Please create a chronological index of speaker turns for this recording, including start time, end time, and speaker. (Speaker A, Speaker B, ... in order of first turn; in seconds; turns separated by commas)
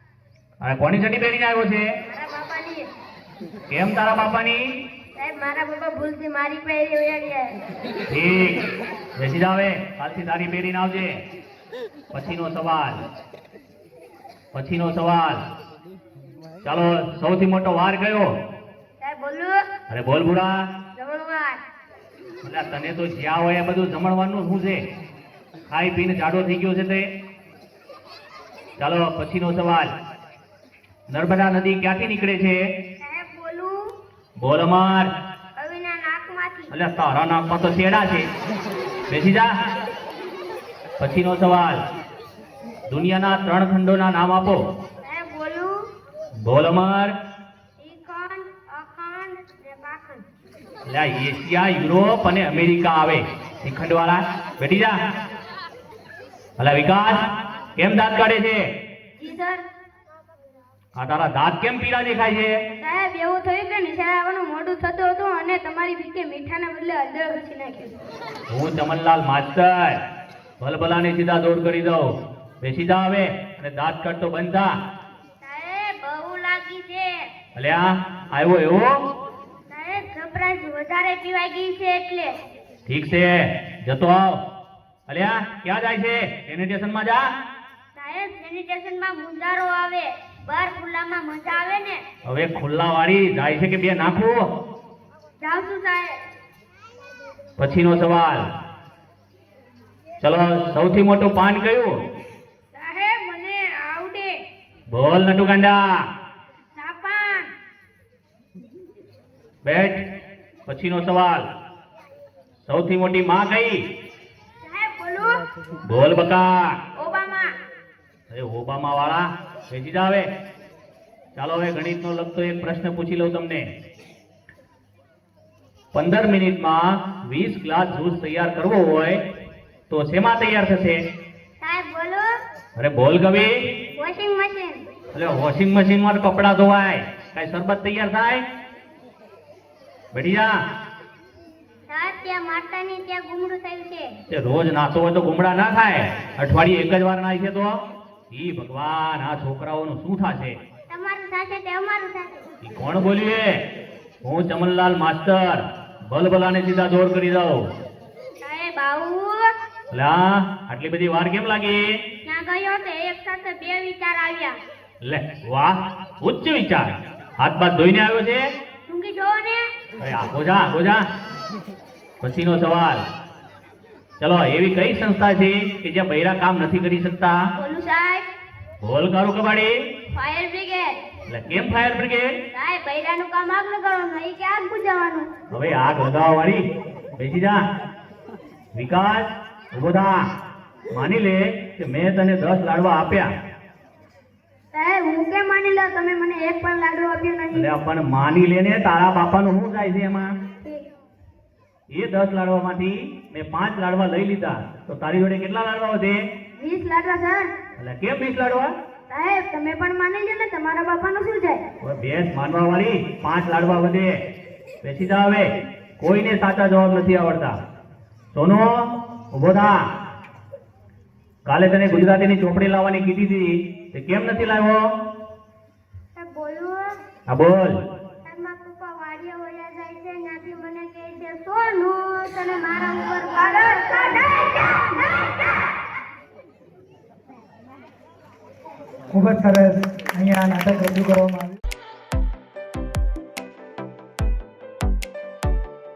Speaker A: 0.6-1.9, Speaker B: 2.0-2.9, Speaker A: 3.7-4.6, Speaker B: 5.2-7.5, Speaker A: 8.1-8.6, Speaker A: 9.2-11.2, Speaker A: 12.1-13.0, Speaker A: 14.5-15.4, Speaker A: 16.6-18.3, Speaker B: 19.0-19.6, Speaker A: 19.9-20.5, Speaker B: 20.9-21.6, Speaker A: 22.4-24.8, Speaker A: 25.7-27.1, Speaker A: 28.8-29.9, Speaker A: 31.1-32.6, Speaker B: 33.0-33.8, Speaker A: 34.4-35.1, Speaker B: 35.6-36.7, Speaker A: 36.7-38.3, Speaker A: 39.1-39.5, Speaker A: 41.0-41.8, Speaker A: 42.9-44.6, Speaker B: 45.0-45.7, Speaker A: 46.4-47.1, Speaker B: 47.8-50.2, Speaker A: 50.9-55.0, Speaker A: 56.6-58.6, Speaker B: 59.2-59.6, Speaker A: 60.9-62.5, Speaker B: 62.8-68.0, Speaker A: 68.5-70.0, Speaker A: 70.6-72.1, Speaker A: 72.6-74.7, Speaker B: 75.4-77.2, Speaker A: 77.5-78.9, Speaker B: 79.7-82.4, Speaker A: 82.8-84.4, Speaker A: 85.1-87.2, Speaker B: 87.9-92.0, Speaker A: 92.2-94.4, Speaker B: 95.4-96.2, Speaker A: 97.6-98.4, Speaker A: 100.2-101.9, Speaker B: 102.8-104.3, Speaker A: 104.9-105.9, Speaker B: 106.8-107.5, Speaker A: 109.6-110.0, Speaker A: 110.7-111.5, Speaker A: 112.6-113.8, Speaker B: 114.6-115.4, Speaker A: 115.8-116.7, Speaker B: 117.0-117.5, Speaker A: 118.3-120.3, Speaker A: 121.3-123.7, Speaker A: 125.9-129.2, Speaker A: 129.9-131.0, Speaker B: 131.6-132.3, Speaker A: 132.8-133.6, Speaker B: 133.9-134.8, Speaker A: 135.1-138.4, Speaker A: 140.1-140.5, Speaker B: 141.9-144.1, Speaker A: 144.3-147.8, Speaker A: 148.3-150.6, Speaker B: 150.9-152.5, Speaker A: 152.6-153.5, Speaker A: 154.2-157.7, Speaker B: 158.4-159.4, Speaker A: 159.9-161.9, Speaker B: 162.2-164.6, Speaker A: 165.0-168.4, Speaker B: 168.9-169.7, Speaker A: 170.0-171.0, Speaker A: 172.2-173.0, Speaker A: 174.2-177.4, Speaker B: 177.6-178.2, Speaker A: 178.8-179.7, Speaker B: 180.1-181.0, Speaker A: 181.3-182.3, Speaker B: 182.5-185.3, Speaker A: 185.5-186.6, Speaker A: 187.2-187.6, Speaker A: 188.7-190.2, Speaker A: 190.9-193.3, Speaker B: 194.7-197.6, Speaker A: 197.5-200.3, Speaker A: 201.9-206.2, Speaker B: 206.6-207.5, Speaker A: 207.8-208.7, Speaker B: 209.1-211.6, Speaker A: 211.8-214.2, Speaker A: 214.8-217.5, Speaker A: 218.3-218.7, Speaker A: 219.3-219.8, Speaker A: 221.4-224.8, Speaker B: 226.2-226.9, Speaker A: 227.3-227.8, Speaker B: 228.2-235.3, Speaker C: 239.1-241.5